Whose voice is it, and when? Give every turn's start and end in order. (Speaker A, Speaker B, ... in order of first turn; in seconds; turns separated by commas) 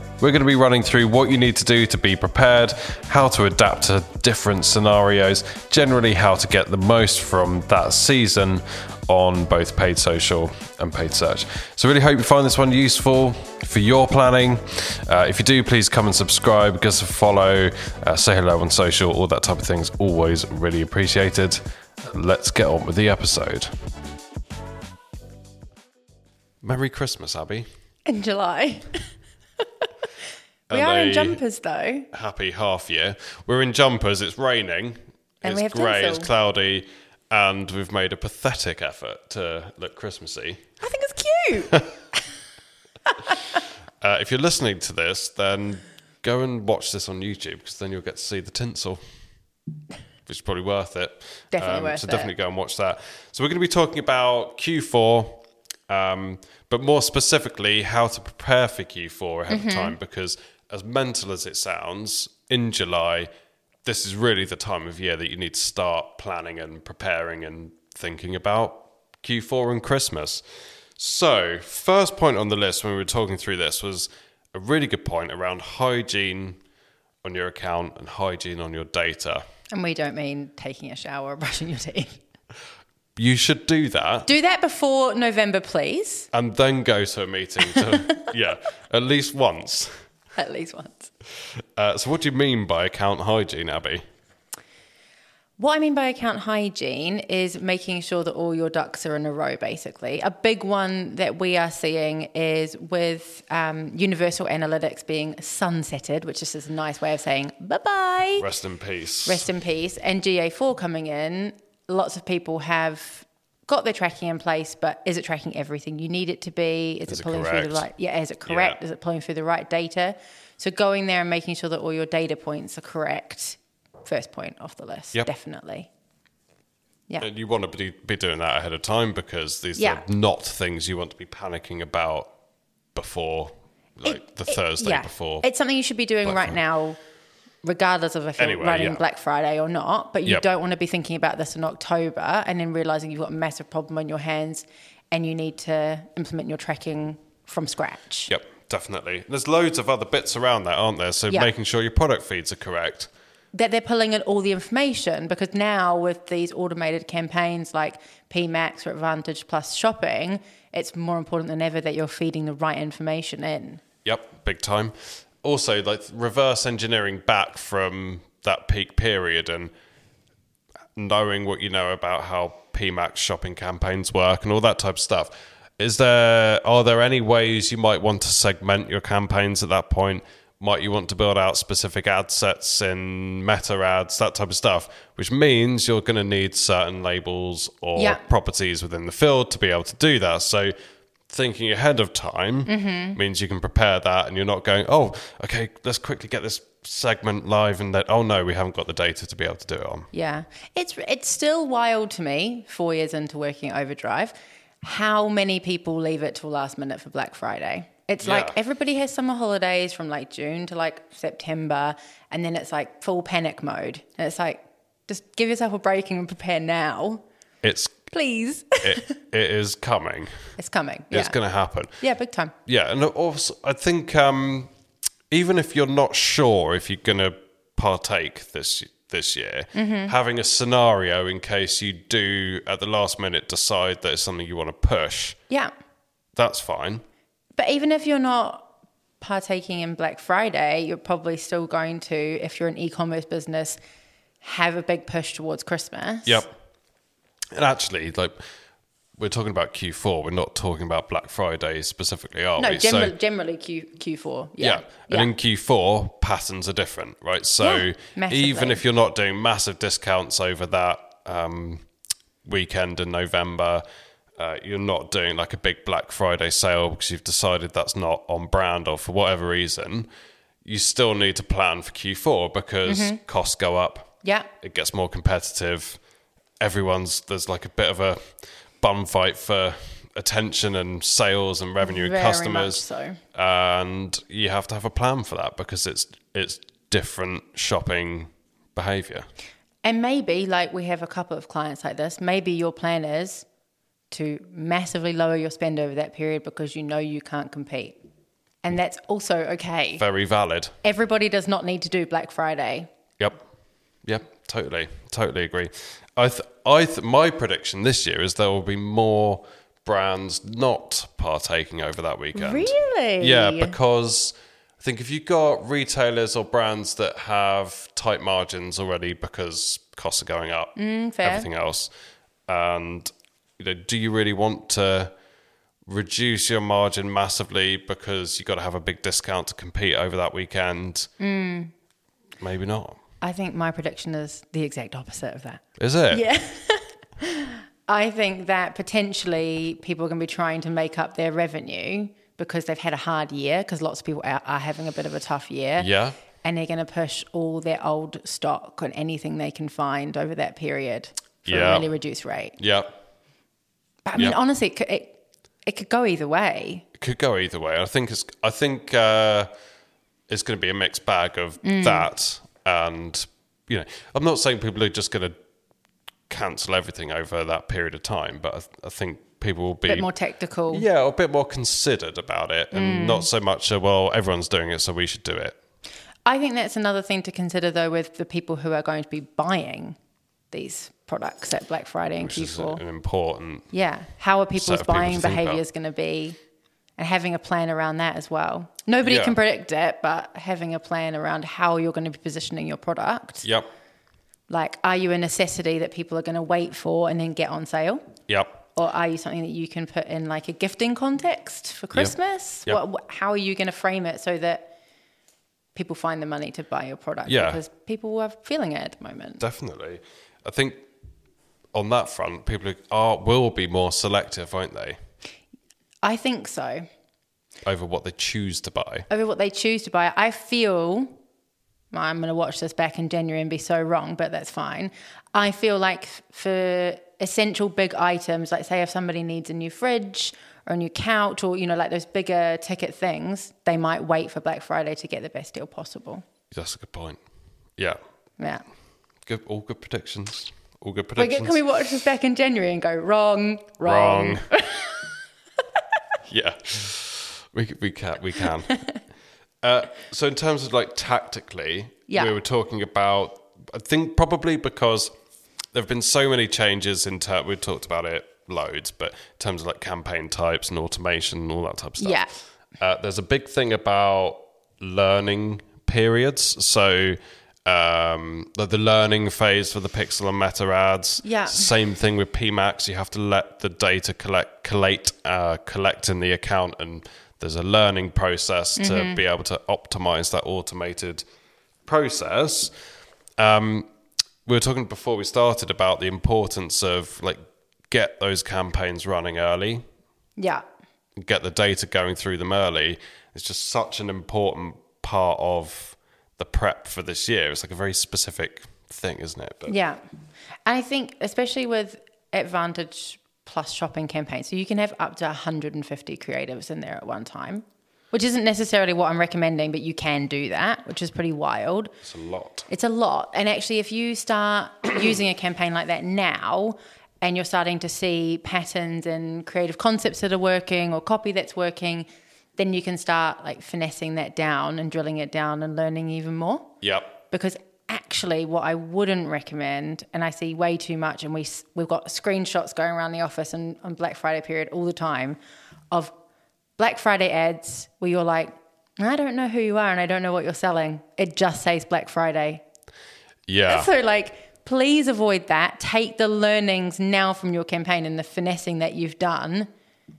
Speaker A: 0.2-23.7, Speaker A: 26.6-27.6, Speaker B: 28.1-29.0, Speaker A: 30.7-31.4, Speaker B: 30.7-32.1, Speaker A: 32.1-40.6, Speaker B: 35.4-36.3, Speaker B: 40.8-41.8, Speaker A: 44.0-49.2, Speaker A: 50.3-63.3, Speaker B: 51.5-52.3, Speaker B: 59.5-59.9, Speaker A: 63.8-70.4, Speaker A: 71.0-76.6, Speaker A: 77.2-79.4, Speaker B: 79.7-82.2, Speaker A: 83.2-84.3, Speaker B: 84.2-86.3, Speaker A: 86.3-90.0, Speaker B: 87.7-88.2, Speaker B: 90.3-91.1, Speaker A: 91.8-94.0, Speaker B: 95.6-108.5, Speaker A: 108.4-109.5, Speaker B: 109.2-125.9, Speaker A: 117.1-117.9, Speaker A: 118.5-118.8, Speaker A: 127.2-132.3, Speaker B: 129.8-130.0, Speaker A: 132.9-135.5, Speaker B: 134.0-137.0, Speaker A: 136.2-136.6, Speaker B: 137.6-148.3, Speaker A: 138.4-139.0, Speaker A: 148.3-153.1, Speaker B: 153.5-163.8, Speaker A: 164.0-169.7, Speaker A: 170.9-190.7, Speaker B: 187.9-188.2, Speaker A: 191.3-200.1, Speaker B: 192.7-193.2, Speaker B: 200.1-217.2, Speaker A: 208.2-208.5, Speaker A: 217.6-218.1, Speaker B: 218.1-219.1, Speaker A: 218.8-220.6, Speaker B: 220.6-221.4, Speaker A: 221.1-222.1, Speaker B: 221.9-222.5, Speaker A: 222.7-224.7, Speaker A: 225.3-235.4, Speaker B: 229.7-230.1, Speaker A: 236.3-237.0, Speaker B: 237.6-238.7, Speaker B: 239.2-243.8, Speaker B: 244.4-246.4, Speaker A: 246.2-246.5, Speaker A: 247.5-248.4, Speaker A: 249.2-253.1, Speaker B: 252.6-255.3, Speaker A: 254.6-261.9, Speaker B: 257.6-258.8, Speaker A: 262.4-263.8, Speaker A: 264.4-270.1, Speaker A: 270.6-276.0, Speaker B: 272.8-273.2, Speaker B: 274.2-274.5, Speaker A: 276.6-282.8, Speaker B: 281.8-283.2, Speaker A: 283.3-289.2, Speaker B: 289.8-293.5, Speaker B: 294.1-298.0, Speaker B: 298.6-300.0, Speaker A: 300.0-300.8, Speaker B: 300.8-302.9, Speaker A: 304.0-321.9, Speaker B: 312.3-313.8, Speaker B: 320.8-321.5, Speaker A: 322.5-325.1, Speaker A: 325.9-331.1, Speaker B: 331.2-331.7, Speaker A: 332.4-333.0, Speaker B: 333.2-352.6, Speaker A: 335.8-336.2, Speaker A: 345.8-346.2, Speaker A: 351.5-351.9, Speaker A: 352.6-352.9, Speaker B: 354.0-356.8, Speaker A: 357.0-359.5, Speaker A: 360.3-365.4, Speaker B: 361.6-362.1, Speaker A: 366.3-370.1, Speaker B: 369.9-370.9, Speaker A: 370.7-375.6, Speaker B: 372.7-373.3, Speaker B: 376.2-379.9, Speaker B: 380.5-382.8, Speaker A: 382.2-383.7, Speaker B: 383.7-386.4, Speaker A: 384.6-385.6, Speaker B: 387.0-393.4, Speaker A: 389.0-389.4, Speaker B: 394.5-398.0, Speaker A: 398.3-398.6, Speaker B: 398.7-404.7, Speaker B: 405.7-409.4, Speaker A: 407.2-407.6, Speaker A: 409.4-410.9, Speaker A: 411.7-415.0, Speaker B: 416.0-416.9, Speaker A: 417.6-419.1, Speaker B: 419.1-421.2, Speaker B: 421.9-436.2, Speaker A: 436.5-437.2, Speaker B: 438.4-438.6, Speaker A: 439.2-441.6, Speaker B: 441.2-445.1, Speaker A: 443.8-444.4, Speaker A: 446.3-448.8, Speaker A: 449.6-455.1, Speaker B: 452.1-452.3, Speaker A: 455.7-481.2, Speaker B: 462.0-462.3, Speaker B: 471.2-471.7, Speaker B: 478.8-479.2, Speaker A: 481.9-482.7, Speaker A: 483.4-483.9, Speaker A: 484.4-489.8, Speaker B: 490.4-490.6, Speaker A: 491.1-499.7, Speaker B: 499.7-500.0, Speaker B: 500.6-511.9, Speaker A: 512.0-512.6, Speaker B: 512.7-522.0, Speaker B: 522.6-526.7, Speaker A: 526.8-527.1, Speaker B: 527.3-535.4, Speaker B: 536.8-542.6, Speaker A: 543.5-543.9, Speaker B: 543.7-549.7